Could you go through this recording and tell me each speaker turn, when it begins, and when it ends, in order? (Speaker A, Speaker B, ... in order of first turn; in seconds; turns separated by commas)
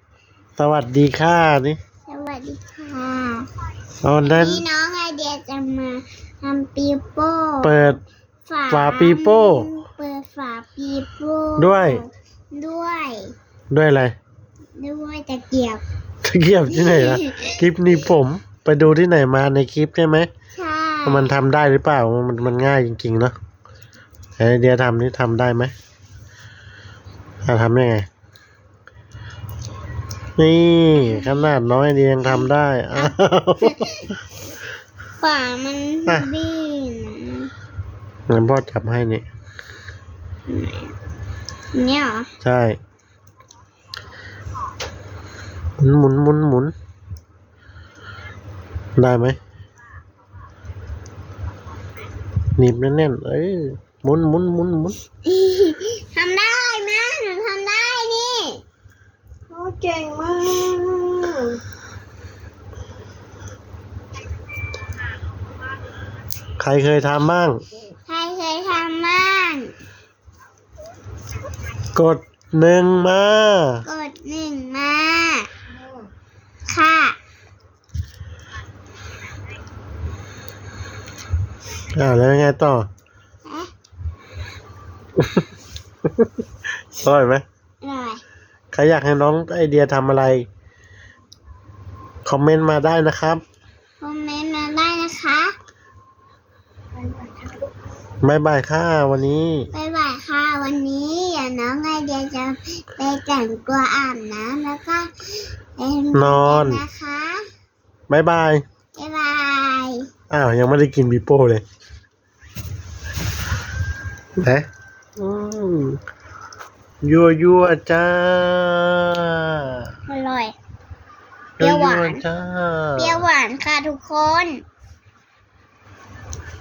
Speaker A: 0.6-1.8, Speaker B: 2.1-3.5, Speaker A: 4.0-4.6, Speaker B: 4.2-7.8, Speaker A: 7.6-8.0, Speaker B: 8.5-13.3, Speaker A: 8.7-9.7, Speaker A: 11.6-12.0, Speaker A: 13.7-14.1, Speaker B: 14.8-15.8, Speaker A: 16.2-20.3, Speaker B: 16.7-17.5, Speaker B: 20.5-21.4, Speaker A: 21.1-23.4, Speaker A: 24.4-25.7, Speaker A: 27.4-28.1, Speaker A: 30.4-34.0, Speaker B: 30.9-31.5, Speaker B: 33.0-34.0, Speaker B: 35.2-37.5, Speaker A: 38.3-39.2, Speaker B: 40.5-40.9, Speaker B: 41.7-42.3, Speaker A: 42.4-42.8, Speaker A: 45.8-46.7, Speaker A: 49.0-49.4, Speaker A: 52.6-55.0, Speaker B: 55.2-58.6, Speaker C: 59.5-61.6, Speaker A: 66.6-67.6, Speaker B: 68.0-69.7, Speaker A: 71.9-73.8, Speaker B: 73.8-75.5, Speaker B: 76.7-77.2, Speaker A: 81.9-82.9, Speaker B: 83.5-83.7, Speaker A: 85.2-85.4, Speaker A: 86.9-87.4, Speaker B: 87.8-88.2, Speaker A: 88.7-90.5, Speaker A: 92.2-93.4, Speaker B: 94.0-95.5, Speaker A: 98.2-99.7, Speaker B: 99.7-105.1, Speaker B: 105.8-107.4, Speaker A: 106.1-106.8, Speaker A: 108.1-108.6, Speaker B: 109.0-110.1, Speaker A: 110.3-111.6, Speaker A: 114.4-114.7, Speaker A: 115.2-116.0, Speaker A: 117.0-119.8, Speaker B: 120.1-120.5, Speaker A: 121.6-123.2, Speaker B: 121.6-122.2, Speaker B: 123.0-124.6